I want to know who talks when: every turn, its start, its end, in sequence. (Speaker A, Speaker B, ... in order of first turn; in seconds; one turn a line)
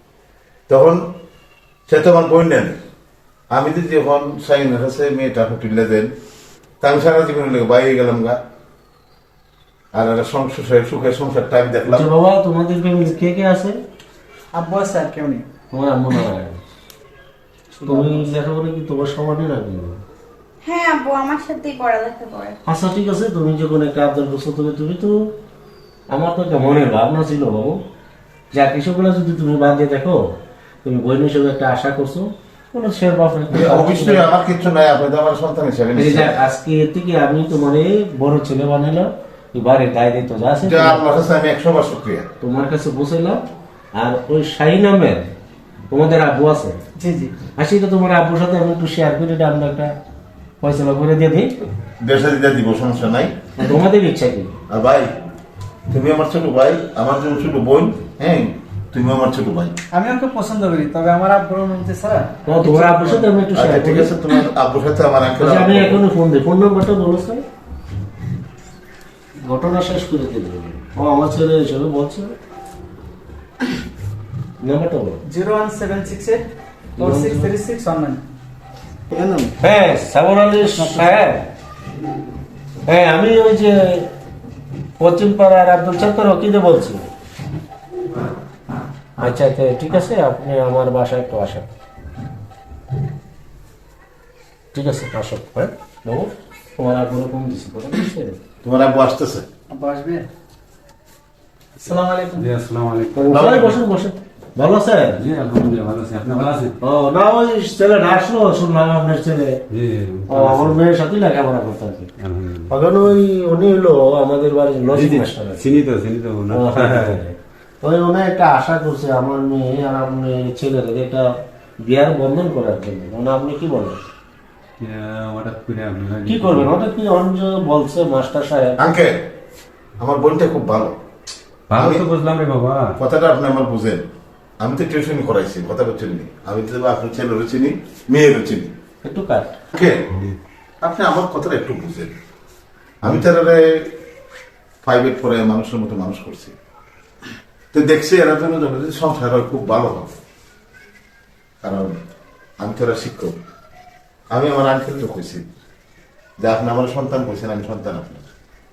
Speaker A: 0.7-1.0
Speaker A: 1.9-2.8
Speaker A: 3.5-6.1
Speaker A: 6.8-8.4
Speaker A: 9.9-12.1
Speaker B: 11.9-13.8
Speaker C: 14.5-15.4
Speaker B: 15.7-16.6
Speaker C: 17.7-18.3
Speaker B: 17.9-20.0
Speaker D: 20.6-22.6
Speaker B: 22.6-25.1
Speaker B: 26.1-27.8
Speaker B: 28.5-30.2
Speaker B: 30.8-34.3
Speaker A: 33.5-36.4
Speaker B: 35.9-41.0
Speaker A: 40.6-42.3
Speaker B: 42.4-43.4
Speaker B: 43.9-45.3
Speaker B: 45.9-46.8
Speaker C: 47.0-47.3
Speaker B: 47.5-49.9
Speaker B: 50.6-51.5
Speaker A: 52.0-53.4
Speaker B: 53.5-54.5
Speaker A: 54.7-55.1
Speaker A: 55.9-59.8
Speaker C: 59.9-63.2
Speaker B: 62.5-64.1
Speaker A: 63.5-66.0
Speaker B: 65.4-67.4
Speaker B: 69.4-72.3
Speaker B: 74.6-75.2
Speaker C: 75.3-76.4
Speaker B: 77.0-77.5
Speaker C: 77.0-78.2
Speaker C: 79.1-79.5
Speaker B: 79.6-81.5
Speaker C: 80.7-81.2
Speaker B: 82.9-84.1
Speaker B: 85.0-87.1
Speaker B: 89.2-91.7
Speaker B: 94.7-98.4
Speaker A: 98.6-99.5
Speaker C: 99.7-100.3
Speaker E: 101.8-103.6
Speaker C: 101.8-102.5
Speaker B: 103.1-105.2
Speaker A: 103.3-103.7
Speaker E: 105.2-106.7
Speaker B: 106.8-109.6
Speaker E: 109.7-110.8
Speaker B: 110.3-112.1
Speaker E: 112.2-112.7
Speaker B: 112.7-115.7
Speaker E: 114.9-117.1
Speaker B: 116.5-121.3
Speaker B: 121.8-124.0
Speaker E: 124.8-126.7
Speaker B: 126.3-128.8
Speaker A: 128.8-129.2
Speaker A: 130.0-130.9
Speaker E: 131.7-132.9
Speaker A: 131.7-132.0
Speaker A: 133.0-134.0
Speaker A: 134.6-138.7
Speaker B: 139.0-139.5
Speaker A: 139.7-140.1
Speaker A: 140.8-142.1
Speaker A: 143.0-143.9
Speaker A: 144.8-146.5
Speaker A: 147.7-150.1
Speaker A: 151.6-152.0
Speaker A: 152.6-153.3
Speaker A: 154.3-155.4
Speaker A: 156.4-158.3